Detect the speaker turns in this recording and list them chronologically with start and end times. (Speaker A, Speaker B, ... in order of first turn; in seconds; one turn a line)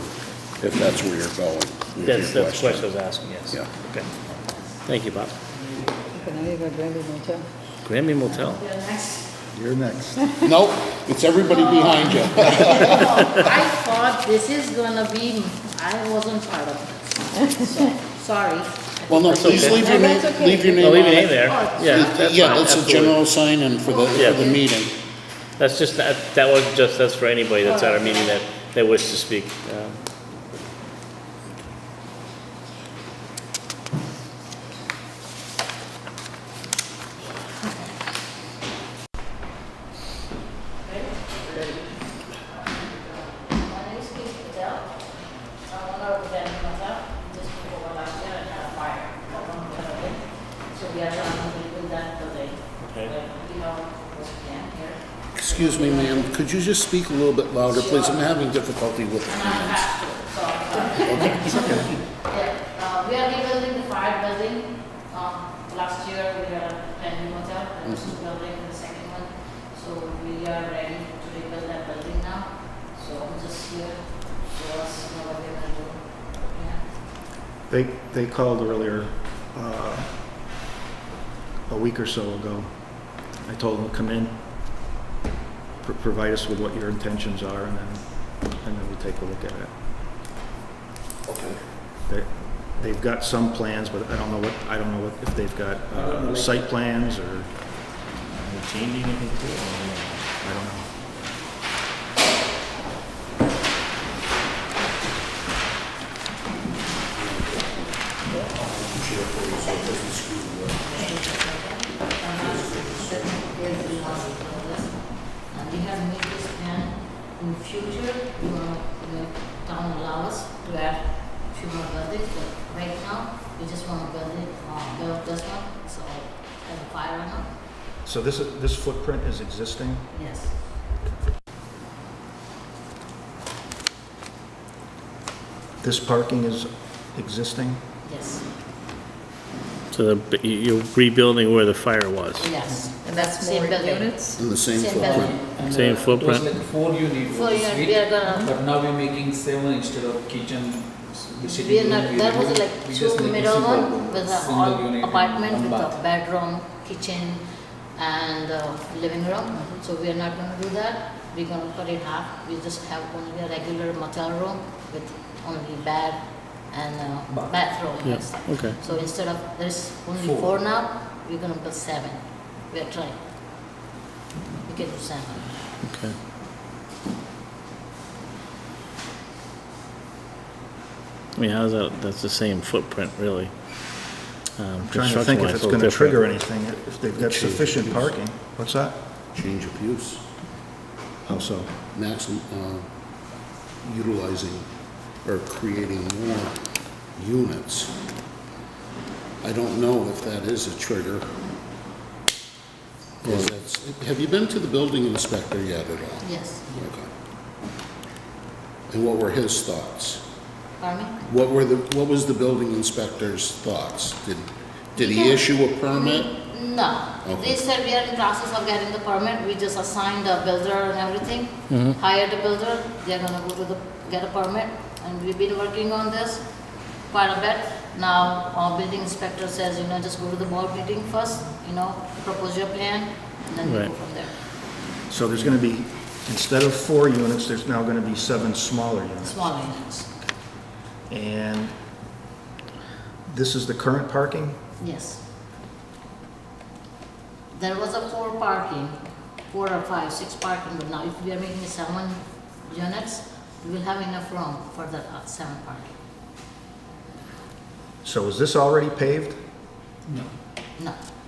Speaker A: 0.6-2.9
Speaker B: 2.0-4.1
Speaker C: 4.2-4.8
Speaker B: 4.8-5.3
Speaker C: 5.4-6.2
Speaker D: 6.2-7.5
Speaker B: 7.8-8.6
Speaker C: 8.2-9.3
Speaker E: 9.5-10.4
Speaker A: 10.4-13.2
Speaker C: 11.4-19.9
Speaker A: 19.1-24.9
Speaker B: 19.3-19.9
Speaker D: 19.7-21.0
Speaker B: 20.8-23.2
Speaker C: 21.4-22.2
Speaker B: 24.1-24.5
Speaker B: 25.6-30.0
Speaker C: 27.6-28.4
Speaker C: 37.6-37.9
Speaker C: 40.8-41.4
Speaker C: 43.0-56.3
Speaker B: 52.8-53.1
Speaker A: 55.3-59.9
Speaker C: 57.6-58.3
Speaker C: 59.2-76.8
Speaker A: 61.0-61.9
Speaker E: 61.5-61.9
Speaker E: 77.7-80.1
Speaker E: 81.7-84.4
Speaker E: 85.8-89.7
Speaker A: 91.3-91.6
Speaker E: 92.1-97.5
Speaker B: 98.3-100.2
Speaker E: 100.4-100.9
Speaker A: 107.1-111.1
Speaker C: 110.8-127.5
Speaker A: 112.3-113.6
Speaker D: 113.8-114.1
Speaker E: 128.0-130.1
Speaker C: 130.1-130.6
Speaker E: 135.8-137.8
Speaker C: 138.0-138.4
Speaker B: 139.9-142.6
Speaker C: 142.4-145.5
Speaker D: 143.0-144.4
Speaker A: 144.3-145.3
Speaker F: 144.9-156.0
Speaker B: 145.6-146.5
Speaker C: 147.3-148.5
Speaker C: 151.4-173.2
Speaker F: 167.3-167.9
Speaker B: 167.9-168.8
Speaker F: 170.1-170.6
Speaker C: 174.7-175.6
Speaker B: 175.8-176.2
Speaker B: 181.3-186.2
Speaker E: 184.8-189.0
Speaker A: 187.1-188.1
Speaker A: 189.3-190.2
Speaker E: 191.2-191.7
Speaker A: 191.9-192.9
Speaker A: 193.8-194.7
Speaker A: 195.2-196.6
Speaker A: 197.1-197.9
Speaker A: 199.4-201.3
Speaker A: 203.2-207.1
Speaker C: 206.2-206.7
Speaker A: 208.9-210.2
Speaker C: 210.8-211.2
Speaker A: 211.2-216.3
Speaker C: 214.9-234.6
Speaker A: 217.2-217.6
Speaker B: 221.7-221.9
Speaker B: 233.6-233.9
Speaker E: 235.1-239.6
Speaker C: 239.2-240.1
Speaker E: 241.1-241.7
Speaker E: 243.2-244.6
Speaker C: 244.8-245.2
Speaker C: 247.5-255.9
Speaker E: 258.0-259.4
Speaker F: 260.1-260.3